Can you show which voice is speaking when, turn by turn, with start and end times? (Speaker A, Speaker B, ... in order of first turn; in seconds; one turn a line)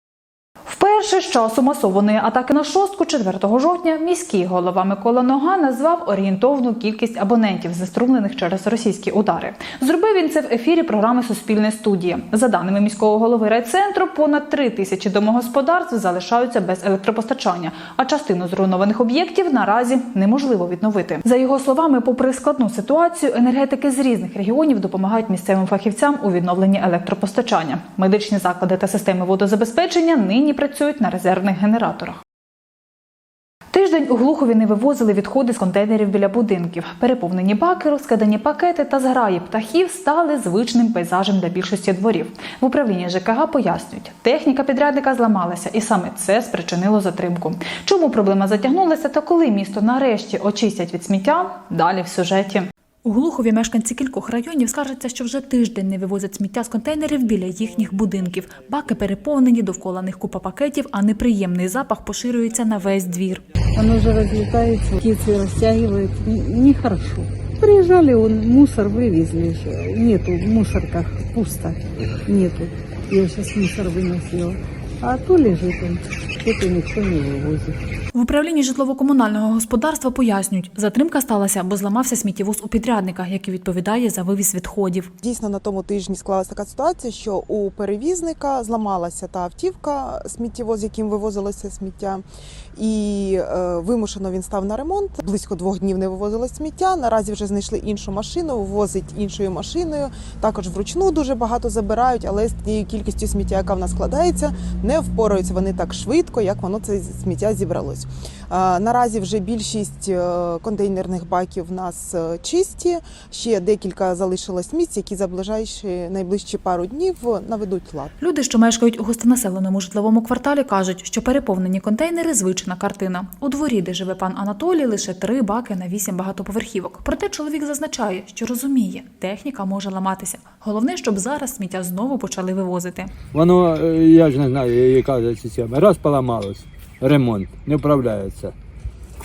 Speaker A: 0.7-32.2
Speaker A: 33.7-63.4
Speaker B: 63.7-77.8
Speaker A: 78.1-85.1
Speaker C: 85.2-92.2
Speaker C: 92.8-118.1
Speaker A: 118.2-133.1
Speaker D: 133.3-138.5